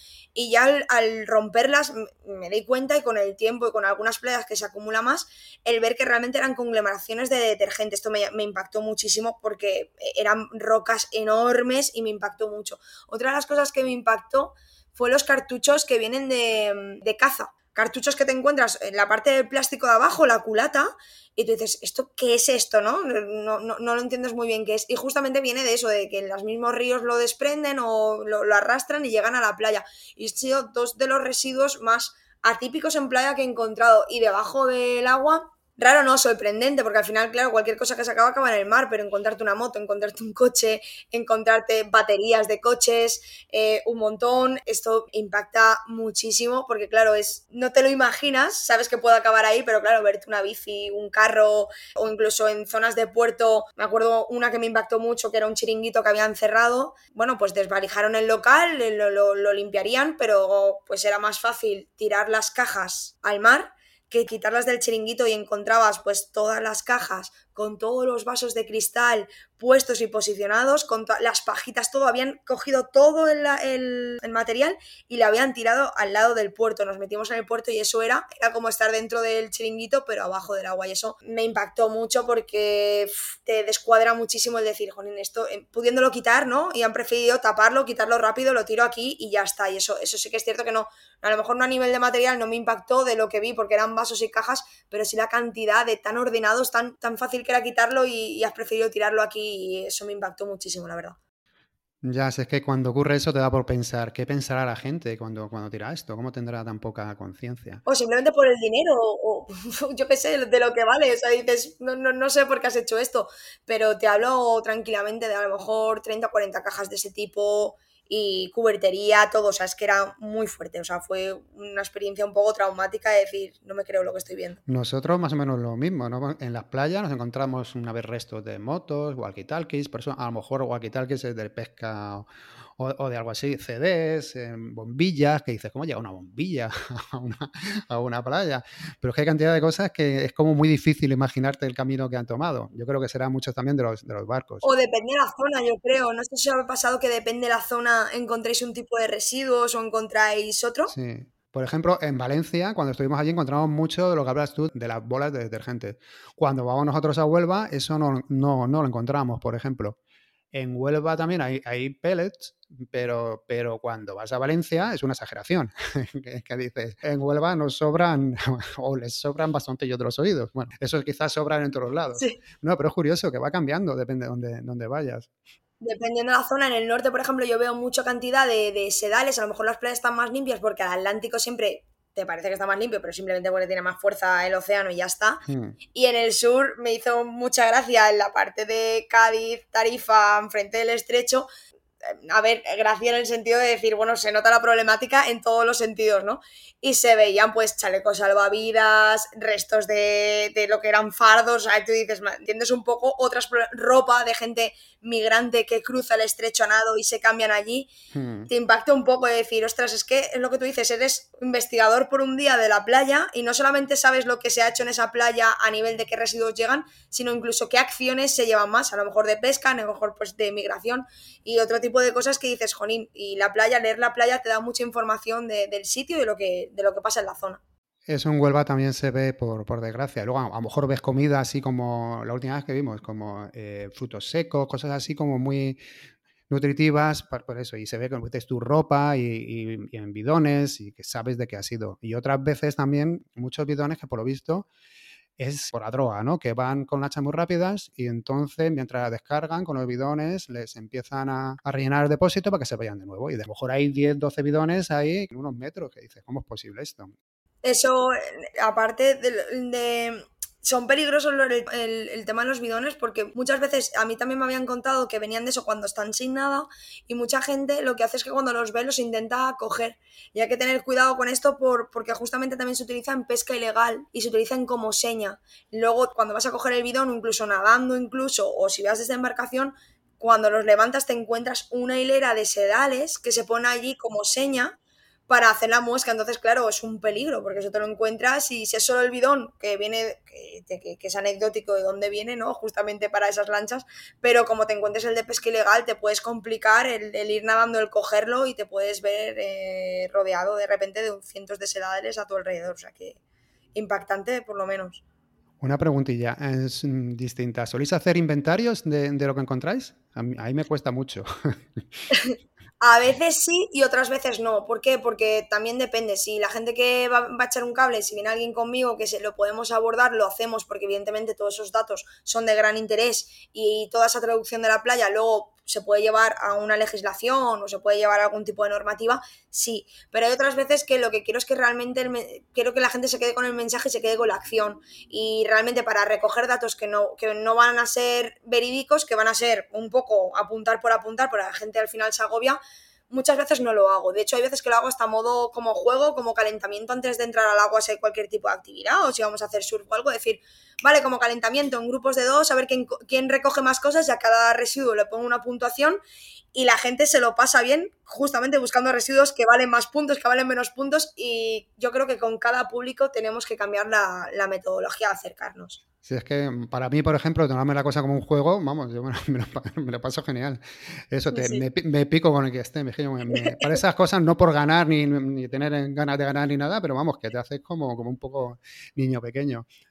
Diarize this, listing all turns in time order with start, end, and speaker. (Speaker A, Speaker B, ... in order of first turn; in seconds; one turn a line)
Speaker A: 0.3-101.2
Speaker B: 102.0-107.8
Speaker A: 107.8-124.6
Speaker B: 124.7-132.2
Speaker B: 132.8-144.7
Speaker A: 144.6-150.9
Speaker B: 150.9-160.0
Speaker B: 160.5-175.3
Speaker A: 175.8-185.4
Speaker B: 185.5-185.8
Speaker A: 185.9-191.5
Speaker A: 192.0-207.9
Speaker B: 208.1-208.5
Speaker A: 208.5-227.6
Speaker B: 228.1-235.8
Speaker B: 236.5-244.7
Speaker B: 245.4-257.1
Speaker A: 257.6-284.8
Speaker A: 285.3-303.2
Speaker A: 303.7-305.0
Speaker B: 305.6-311.8
Speaker A: 312.1-342.6
Speaker A: 343.1-356.0
Speaker A: 356.5-365.8
Speaker B: 366.0-370.6
Speaker B: 371.1-379.6
Speaker A: 371.3-371.6
Speaker A: 373.3-373.8